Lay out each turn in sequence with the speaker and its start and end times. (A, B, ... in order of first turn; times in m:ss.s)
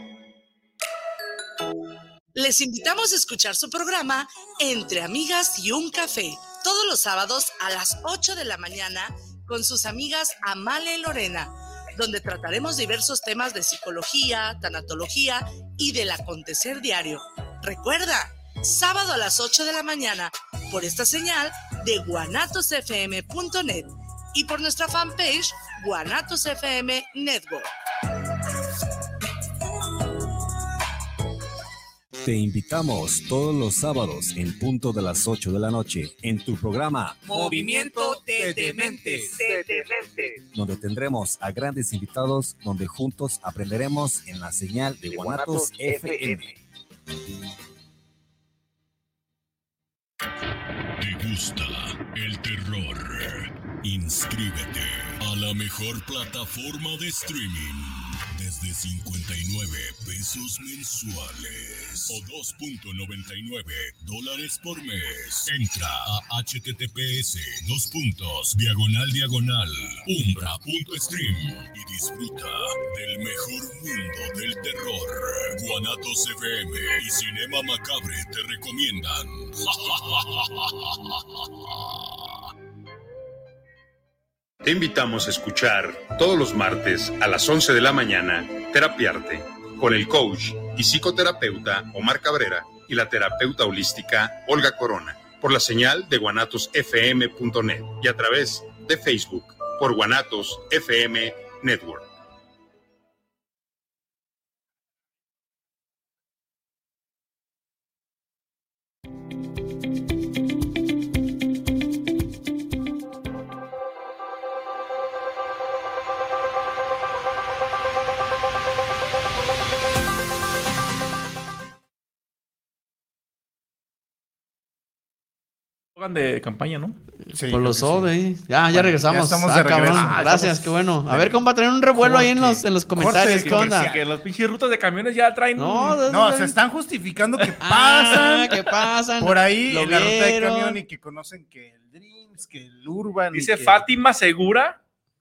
0:02.3-0:27.7 A
0:32.2-0:37.5 B
0:37.4-0:39.5 C
0:37.4-0:40.1 A
0:40.5-0:46.5 B
0:51.0-1:21.2 D
1:24.6-1:42.1 E
2:06.0-2:07.0 F
2:07.3-2:13.9 G
2:07.3-2:08.1 C
2:08.7-2:11.4 C
2:09.9-2:10.6 F
2:12.0-2:14.0 C
2:12.2-2:12.5 F
2:13.1-2:16.0 F
2:15.6-2:16.6 G
2:16.1-2:23.8 C
2:17.6-2:20.8 G
2:23.3-2:24.8 F